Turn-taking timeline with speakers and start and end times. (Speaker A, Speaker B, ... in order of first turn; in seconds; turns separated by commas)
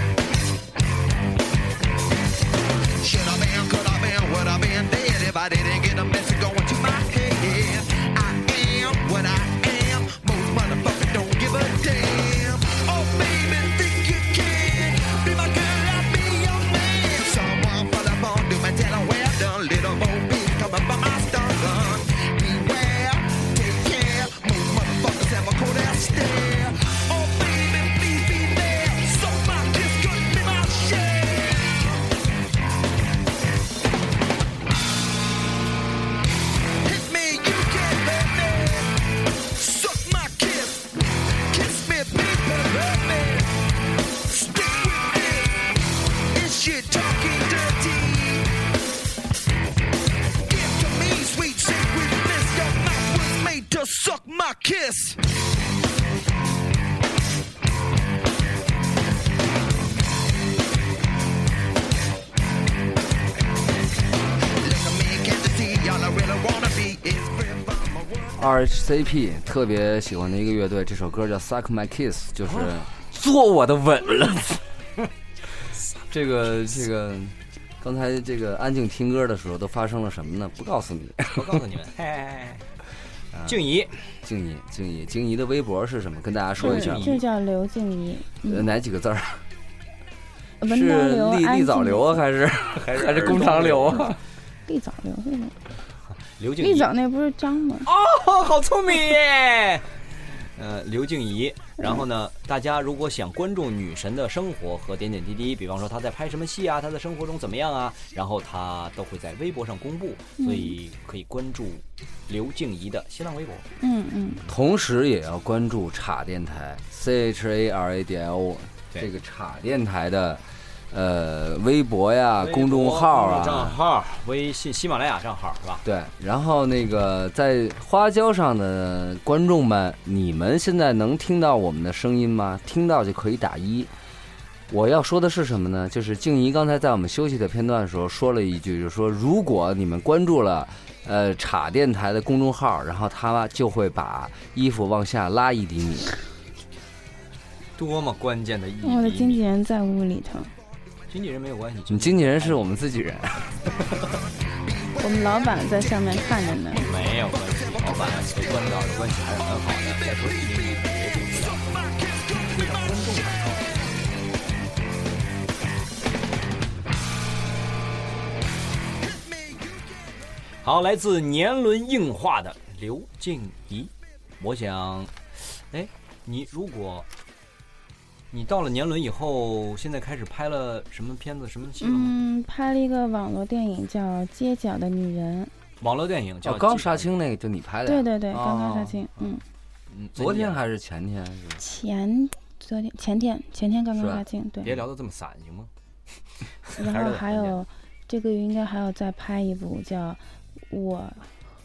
Speaker A: 3.0-32.0, Speaker A: 36.8-41.0, Speaker A: 41.5-43.6, Speaker A: 44.2-45.7, Speaker A: 46.3-48.5, Speaker A: 50.5-55.2, Speaker A: 64.6-68.4, Speaker B: 68.4-74.6, Speaker C: 72.4-72.8, Speaker B: 76.0-81.6, Speaker C: 81.3-82.7, Speaker B: 83.3-83.6, Speaker C: 83.5-84.0, Speaker B: 84.2-87.2, Speaker C: 86.6-87.2, Speaker D: 86.6-88.7, Speaker B: 88.4-89.4, Speaker D: 90.6-92.2, Speaker B: 90.7-94.2, Speaker C: 92.7-94.1, Speaker D: 94.7-95.5, Speaker C: 96.3-96.9, Speaker D: 96.6-97.9, Speaker C: 97.8-113.7, Speaker D: 110.4-110.7, Speaker D: 113.8-114.4, Speaker B: 114.5-123.8, Speaker C: 122.4-125.8, Speaker B: 125.8-133.9, Speaker B: 134.7-146.1, Speaker C: 147.8-149.4, Speaker D: 148.8-150.5, Speaker C: 151.1-152.6, Speaker B: 151.9-153.5, Speaker C: 153.8-154.1, Speaker A: 153.9-164.1, Speaker D: 155.0-156.9, Speaker C: 156.8-161.7, Speaker C: 162.4-164.0, Speaker A: 169.0-170.2, Speaker C: 170.6-177.1, Speaker C: 178.3-182.2, Speaker D: 181.8-185.5, Speaker C: 185.8-187.1, Speaker B: 186.4-189.1, Speaker D: 187.8-189.4, Speaker C: 189.9-190.6, Speaker B: 190.1-191.6, Speaker D: 191.6-194.7, Speaker B: 194.0-194.2, Speaker C: 194.6-195.7, Speaker C: 196.7-197.6, Speaker D: 196.8-201.3